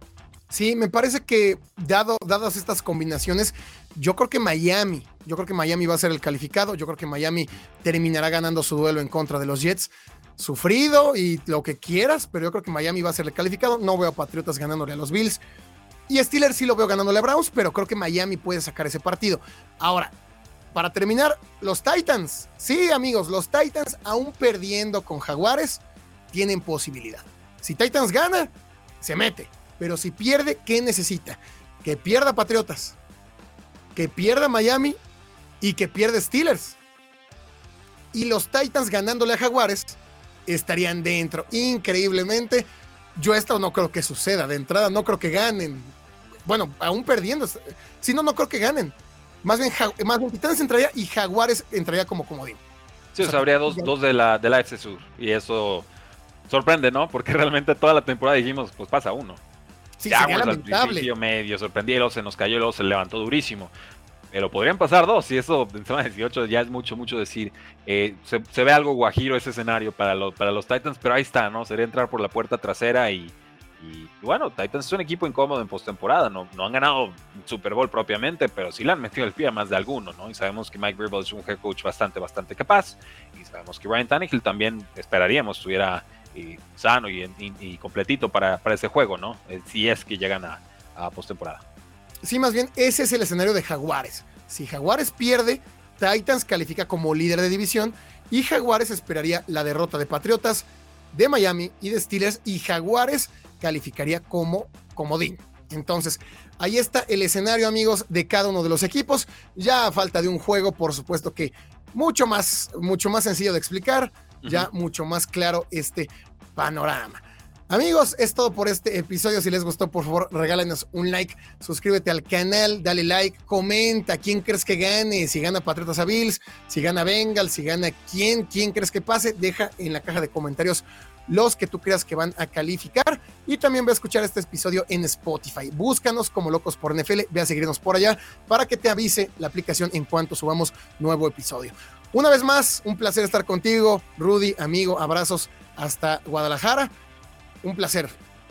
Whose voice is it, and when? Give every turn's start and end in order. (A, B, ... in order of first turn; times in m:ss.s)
0:00.5-0:15.4 A
0:16.1-0:20.1 A
0:20.7-0:25.8 A
0:26.3-0:33.0 A
0:34.0-0:35.0 A
0:35.6-0:36.8 A
0:38.1-0:45.9 A
0:46.5-0:52.6 A
0:53.1-0:55.9 B
0:53.2-0:53.9 A
0:56.5-0:59.4 B
1:00.0-1:01.1 A
1:00.1-1:03.7 B
1:04.3-1:31.6 B
1:32.2-2:26.9 A
1:54.4-1:54.7 B
2:27.6-2:28.2 A